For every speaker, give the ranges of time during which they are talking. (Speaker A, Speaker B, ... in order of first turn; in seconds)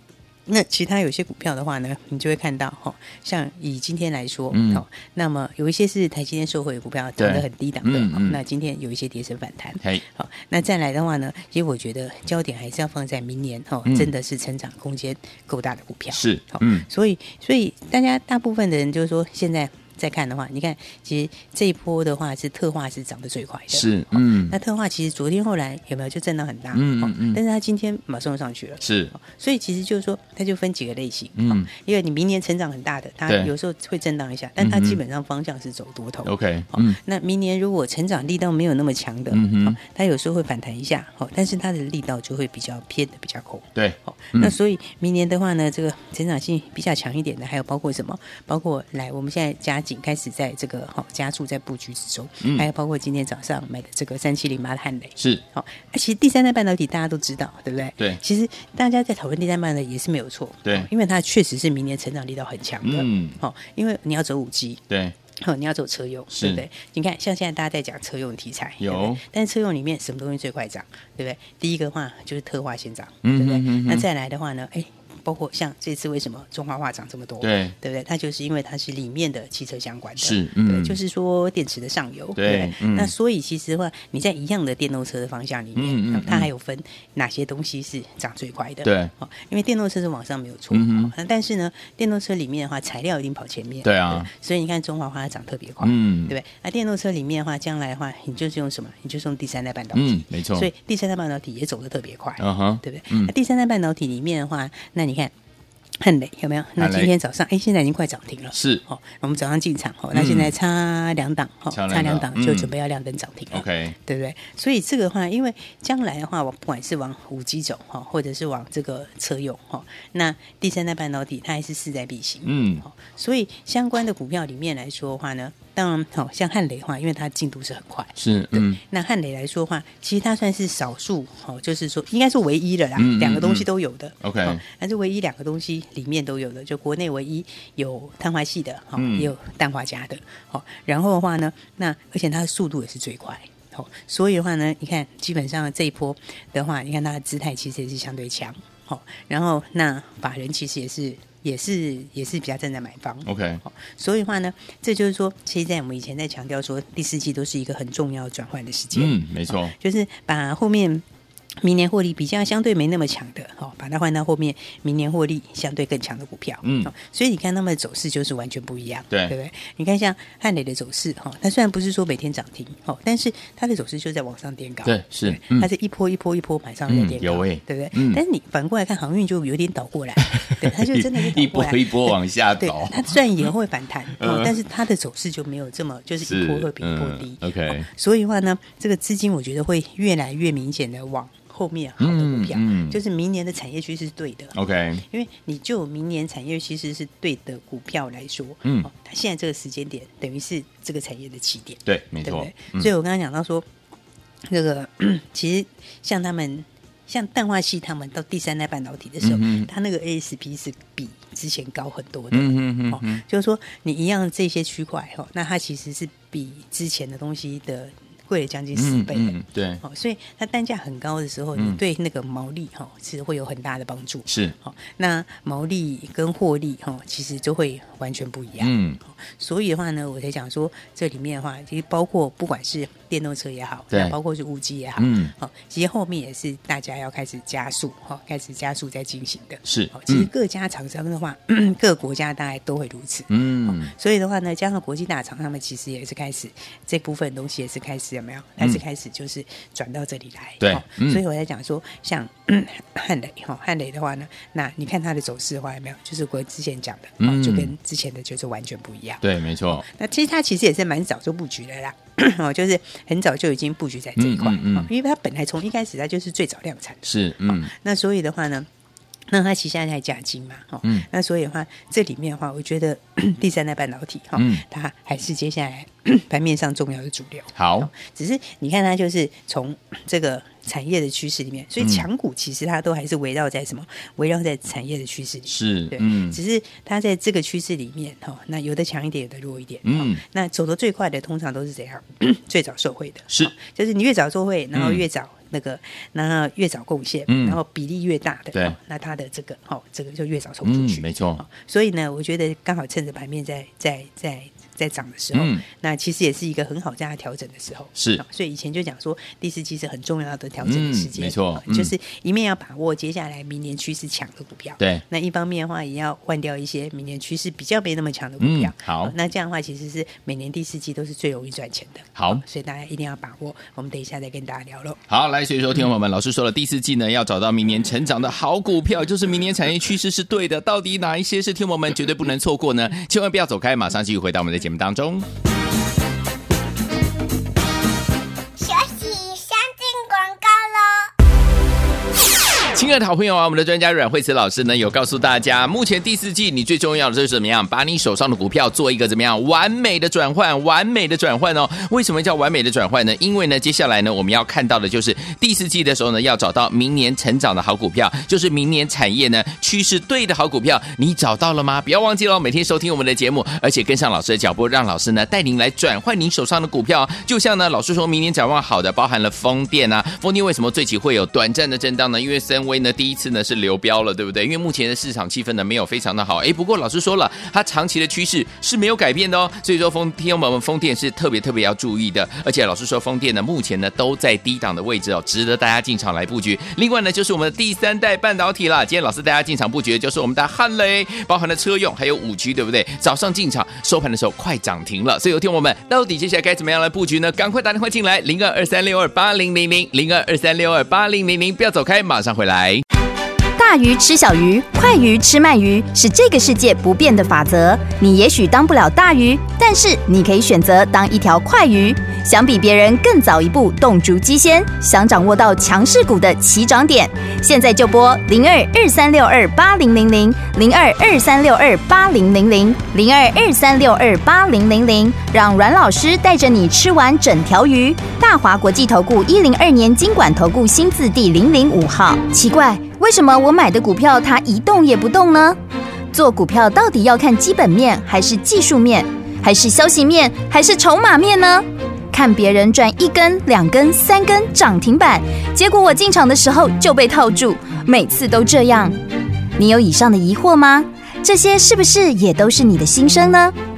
Speaker A: 0.5-64.8, 65.4-105.3, 106.0-161.0, 161.6-203.7, 204.5-259.2, 259.8-268.7, 269.3-325.0
Speaker B: 4.5-4.8, 7.2-8.4, 16.1-16.9, 23.7-24.6, 26.7-27.4, 28.8-29.1, 31.4-31.7, 34.6-35.0, 36.2-37.0, 39.3-39.8, 43.8-44.5, 52.4-52.7, 55.2-55.4, 62.8-63.4, 64.9-65.1, 66.3-66.6, 68.8-69.2, 73.2-74.0, 77.4-77.7, 80.2-81.0, 82.3-83.1, 85.8-86.5, 88.8-89.1, 90.7-91.1, 93.8-94.3, 95.8-96.3, 99.9-100.7, 102.4-103.3, 106.8-107.1, 108.5-108.8, 110.1-110.5, 111.7-112.7, 113.5-114.0, 122.4-122.8, 128.2-128.8, 133.0-133.7, 134.2-134.6, 138.9-139.3, 153.2-153.6, 158.9-159.7, 166.6-166.9, 174.8-175.7, 176.9-178.2, 180.3-183.2, 184.2-184.5, 186.2-187.9, 192.0-193.0, 194.5-195.0, 198.6-198.9, 201.8-202.9, 209.2-209.7, 212.3-213.2, 218.8-219.8, 224.3-224.5, 228.6-229.0, 235.0-235.3, 239.6-240.3, 243.3-243.9, 250.6-251.2, 257.2-257.7, 259.2-259.8, 264.2-264.9, 267.0-267.7, 274.4-274.6, 277.6-277.9, 281.8-282.0, 285.5-286.4, 289.8-290.2, 294.7-295.0, 297.3-297.6, 300.6-301.4, 305.3-305.6, 307.9-308.2, 310.6-311.9, 318.4-319.1, 322.1-322.4, 325.1-335.3, 342.7-402.8
Speaker C: 338.6-341.1
Speaker D: 403.6-435.6, 436.1-449.0, 449.6-453.5